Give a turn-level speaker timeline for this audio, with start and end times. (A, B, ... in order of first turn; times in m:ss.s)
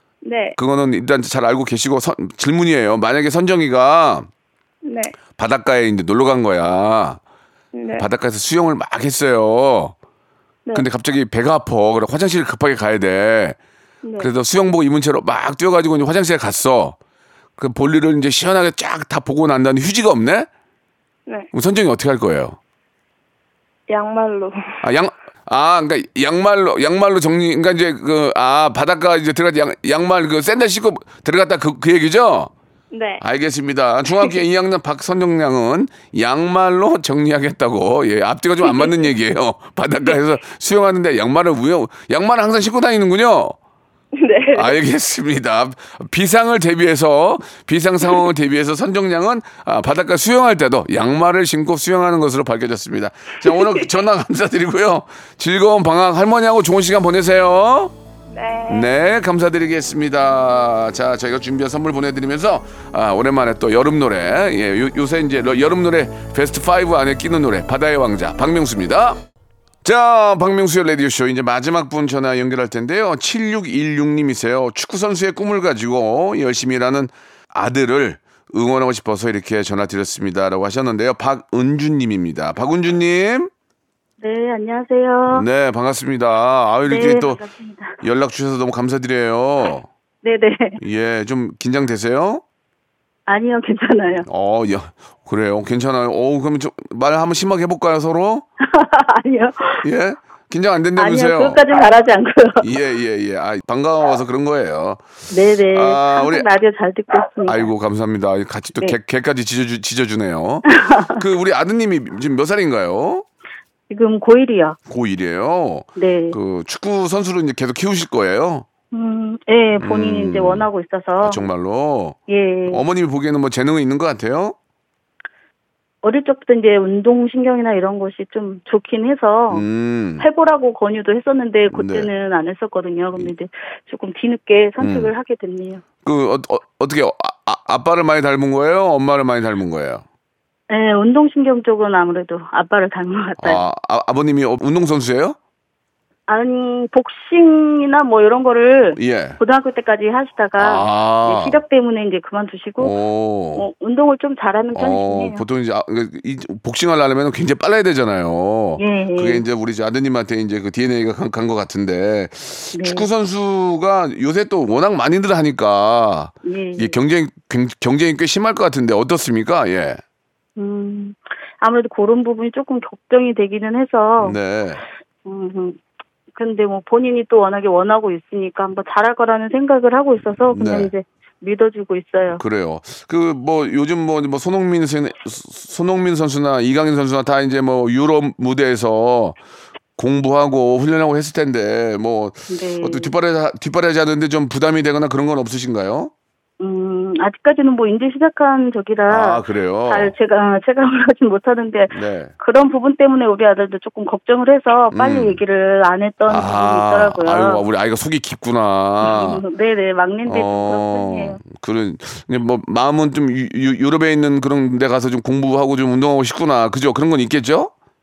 0:00.2-0:00.6 A
0:00.6-0:04.3 B
0:04.8-0:05.2 A
0:05.4-0:07.2 B
0:07.7-0:08.1 A
0:08.0-0:09.9 B
0:10.7-0:13.6 B
0:14.0-0:14.3 A
0:14.2-0:17.0 B
0:17.6-0:20.5 B
0:21.5-0:22.6 B
0:23.9-0:24.5 A
0:24.8-0:32.5 B
0:32.9-0:33.2 A
0:33.2-0:43.6 B
0:38.6-0:38.9 A
0:44.2-0:44.8 A
0:44.5-0:57.9 B
0:58.3-0:58.9 A
0:58.7-1:09.2 B
1:09.8-1:23.5 B
1:24.2-1:25.4 C
1:25.3-1:27.4 B
1:26.9-1:28.0 C
1:28.0-1:29.9 B
1:30.2-1:30.8 C
1:30.8-1:32.4 B
1:33.3-1:34.3 C
1:34.2-1:38.4 B
1:38.6-1:39.8 C
1:39.8-1:41.6 B
1:41.0-1:42.7 C
1:42.6-1:45.0 B
1:45.3-1:47.7 C
1:45.7-1:46.5 B
1:47.4-1:53.2 B
1:50.7-1:51.2 C
1:53.9-1:54.8 C
1:54.9-1:58.6 B
1:56.0-1:56.4 C
1:58.9-2:01.4 C
1:59.8-2:00.6 B
2:01.2-2:04.5 B
2:02.3-2:02.8 C
2:06.0-2:09.6 C
2:09.5-2:10.2 B
2:10.2-2:15.8 C
2:11.7-2:12.1 B
2:14.8-2:15.1 B
2:16.0-2:20.0 B
2:20.7-2:23.6 C
2:23.4-2:25.4 B
2:26.3-2:32.9 C
2:28.9-2:29.4 B
2:30.6-2:31.5 B
2:32.8-2:33.7 B
2:33.6-2:35.4 C
2:34.7-2:50.0 B
2:38.8-2:39.4 C
2:42.7-2:43.1 C
2:46.4-2:46.9 C
2:50.6-2:54.4 C
2:54.2-2:54.8 B
2:55.2-2:55.8 C
2:56.3-3:02.4 C
3:00.5-3:00.9 B
3:02.4-3:09.4 B
3:10.0-3:16.1 B
3:12.5-3:13.1 C
3:16.6-3:27.6 C
3:19.1-3:20.1 B
3:21.9-3:22.3 B
3:24.9-3:25.4 B
3:26.3-3:29.4 B
3:29.0-3:31.4 C
3:30.3-3:37.7 B